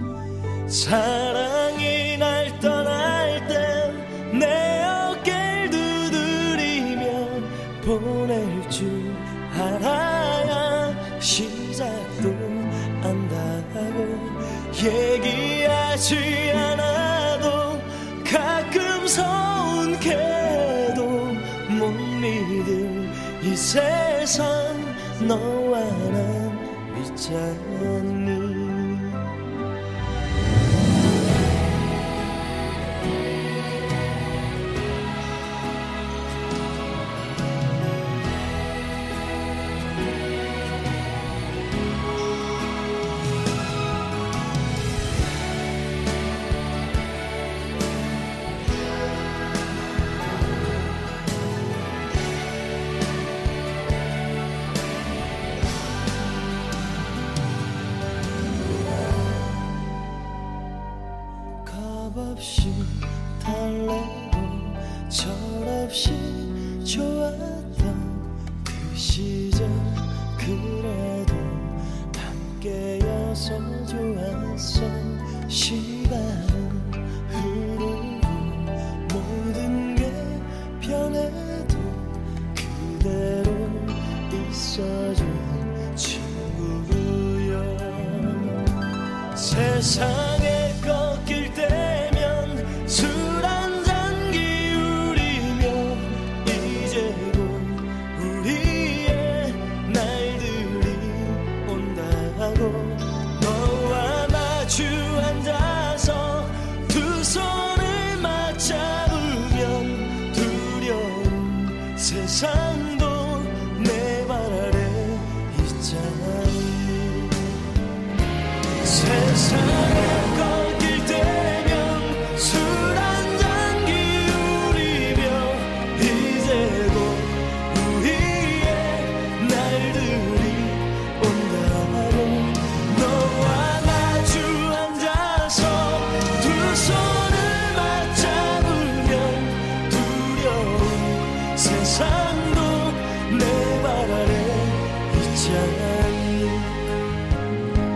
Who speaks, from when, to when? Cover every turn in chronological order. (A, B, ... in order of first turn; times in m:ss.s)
0:00.7-0:29.2 A
1:01.6-1:28.6 A
1:29.4-1:57.5 A
1:58.8-2:26.8 A